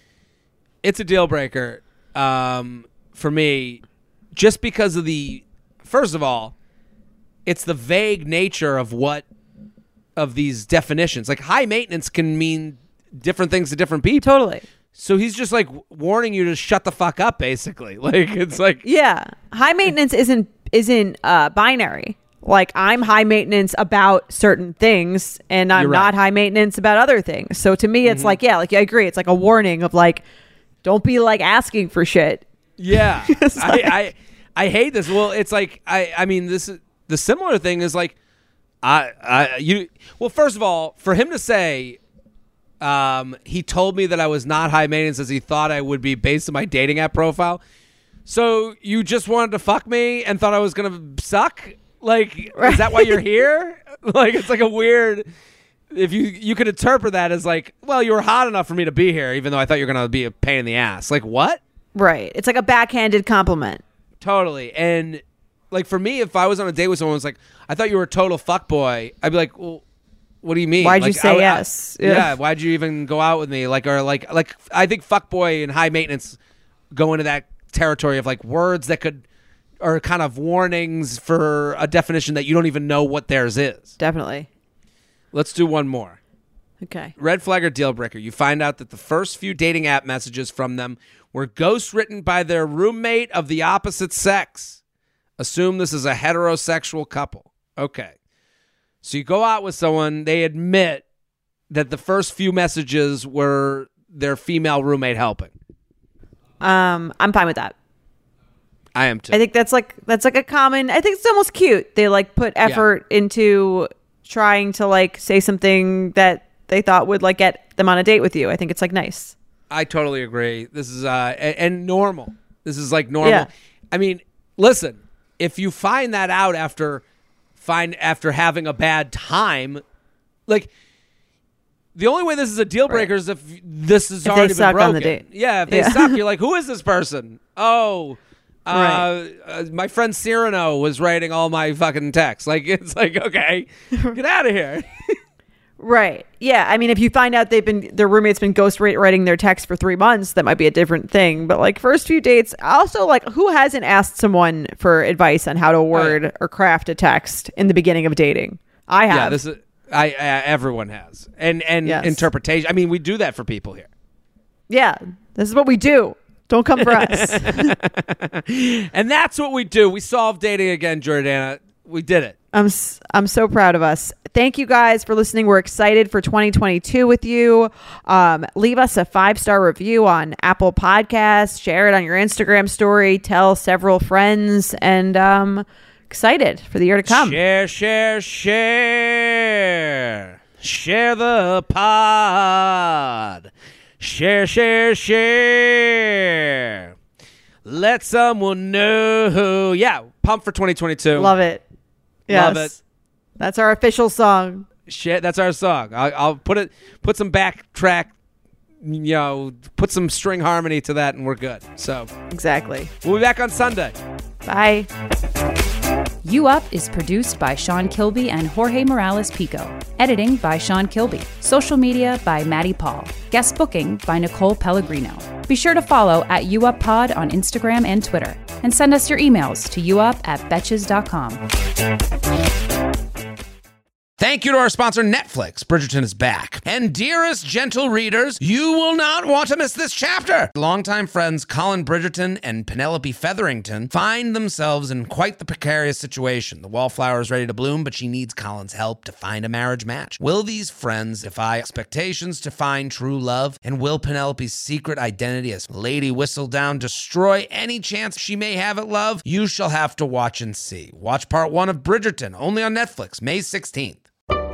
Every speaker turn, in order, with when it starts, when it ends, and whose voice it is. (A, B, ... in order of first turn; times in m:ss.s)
0:00.8-0:03.8 A
0:04.4-0:06.6 A
0:07.5-0:09.2 A
0:10.2-0:14.3 A
0:14.2-0:14.6 B
0:15.0-0:18.8 A
0:18.8-0:30.2 B
0:25.7-0:26.1 A
0:28.0-0:28.4 A
0:30.8-0:34.0 B
0:32.8-0:38.2 A
0:38.8-0:42.0 A
0:42.8-0:47.6 A
0:48.3-0:55.2 A
0:52.6-0:53.2 B
0:55.9-1:01.6 A
1:02.0-1:03.8 B
1:04.2-1:09.8 A
1:10.4-1:16.4 A
1:10.8-1:12.4 B
1:16.9-1:19.2 A
1:19.8-1:23.9 A
1:24.0-1:24.5 B
1:25.3-1:26.2 A
1:26.8-1:27.1 B
1:27.2-1:34.8 A
1:35.4-1:38.2 A
1:39.0-1:41.0 A
1:41.7-1:45.5 A
1:46.6-1:47.8 B
1:49.0-1:49.4 A
1:49.3-1:59.4 B
1:59.7-2:07.0 A
2:03.2-2:03.5 B
2:07.6-2:09.8 A
2:12.0-2:25.2 A
2:14.2-2:16.2 B
2:18.7-2:19.1 B
2:25.8-2:39.4 B
2:35.9-2:36.2 A
2:39.1-2:43.9 A
2:41.8-2:42.2 B
2:44.7-2:47.8 B
2:46.8-2:52.4 A
2:52.5-3:07.4 B
3:07.1-3:13.5 A
3:14.0-3:16.9 A
3:17.6-3:21.3 A
3:21.2-3:21.6 B
3:22.3-3:22.8 B
3:22.3-3:22.7 A
3:23.4-3:24.7 B
3:24.9-3:28.1 A
3:28.8-3:32.1 A
3:32.3-3:32.9 B
3:33.0-3:34.0 A
3:34.5-3:34.9 B
3:36.2-3:51.4 C
3:54.2-4:24.0 A